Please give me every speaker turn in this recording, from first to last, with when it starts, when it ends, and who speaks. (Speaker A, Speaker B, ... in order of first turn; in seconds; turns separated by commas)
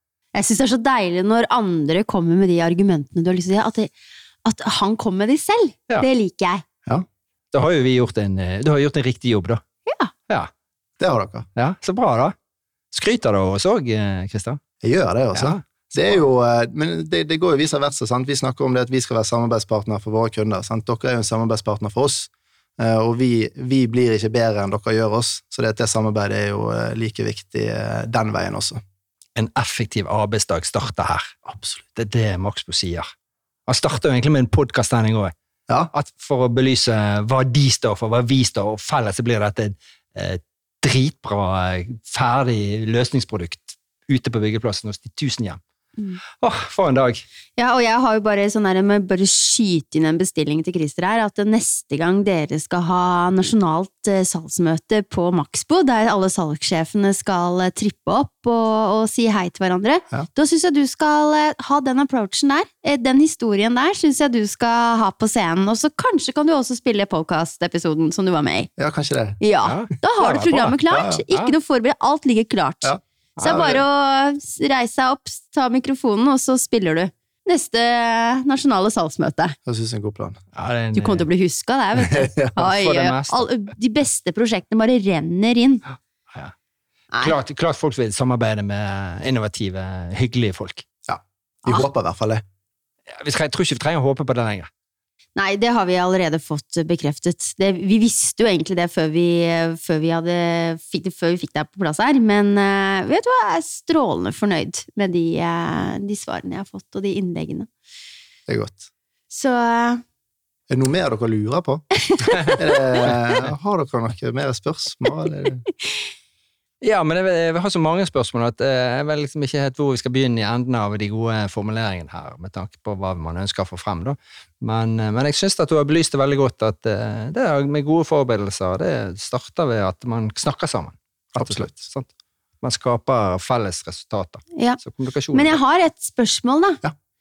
Speaker A: 0.3-3.9, Speaker A: 4.4-6.6, Speaker B: 7.5-9.6, Speaker A: 9.8-10.1, Speaker C: 11.0-11.5, Speaker B: 11.6-12.3, Speaker B: 12.9-14.6, Speaker C: 14.8-28.8, Speaker B: 15.3-15.6, Speaker B: 29.4-31.3, Speaker C: 31.4-31.8, Speaker B: 31.9-33.1, Speaker B: 33.7-35.3, Speaker B: 35.9-45.6, Speaker B: 46.4-47.2, Speaker A: 47.6-68.7, Speaker C: 68.8-69.4, Speaker A: 69.4-79.5, Speaker B: 69.6-71.5, Speaker C: 70.9-71.2, Speaker C: 72.8-73.8, Speaker C: 79.7-80.4, Speaker B: 80.5-81.2, Speaker A: 80.9-85.8, Speaker C: 82.1-82.5, Speaker B: 82.6-83.5, Speaker B: 87.2-90.8, Speaker C: 91.1-92.4, Speaker B: 93.1-94.7, Speaker A: 95.3-107.7, Speaker C: 108.5-108.9, Speaker A: 109.3-110.0, Speaker C: 110.7-111.8, Speaker A: 112.1-112.6, Speaker C: 112.4-115.6, Speaker B: 116.8-132.1, Speaker C: 131.4-131.7, Speaker B: 132.6-135.6, Speaker A: 135.3-136.8